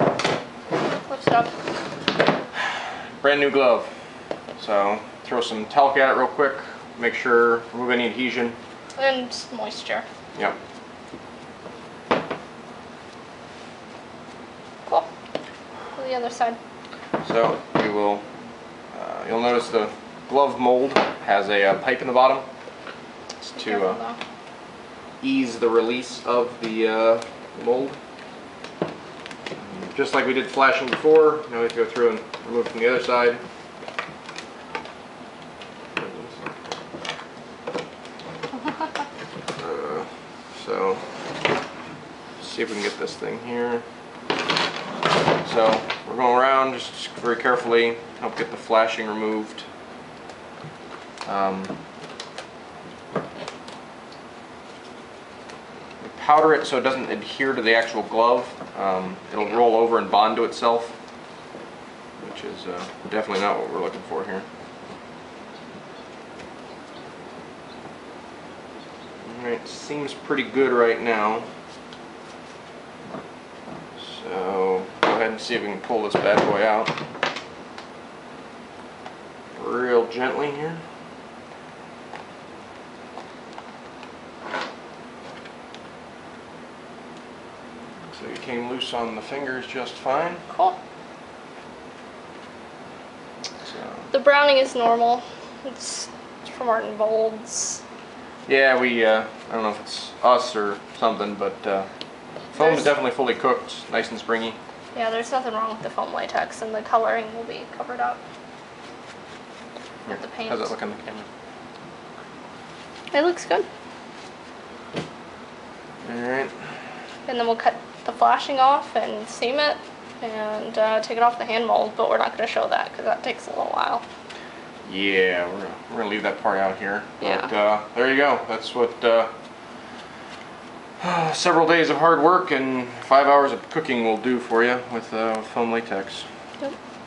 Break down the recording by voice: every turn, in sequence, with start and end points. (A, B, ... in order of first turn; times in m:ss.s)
0:01.0-0:01.5 A
0:03.2-0:03.9 B
0:04.6-0:08.6 B
0:09.0-0:10.0 A
0:16.0-0:16.6 A
0:17.2-0:18.2 B
0:18.9-0:22.4 B
0:23.4-0:24.0 B
0:23.6-0:24.2 A
0:25.2-0:28.0 B
0:29.6-0:33.4 B
0:36.0-0:36.4 B
0:39.6-0:41.0 B
0:42.4-0:43.8 B
0:45.4-0:49.6 B
0:51.2-0:51.7 B
0:56.0-1:00.9 B
1:02.2-1:04.4 B
1:09.2-1:11.4 B
1:14.0-1:16.9 B
1:19.6-1:20.8 B
1:28.1-1:30.4 B
1:30.5-1:30.8 A
1:33.6-1:34.1 B
1:34.1-1:37.8 A
1:38.5-1:41.9 B
1:42.5-1:44.6 B
1:42.6-1:42.9 A
1:44.9-1:48.2 A
1:50.0-1:51.3 B
1:50.1-1:50.7 A
1:53.1-1:53.7 A
1:56.0-1:56.5 B
1:57.3-2:04.0 A
2:04.8-2:09.3 B
2:07.2-2:07.5 A
2:11.0-2:16.2 B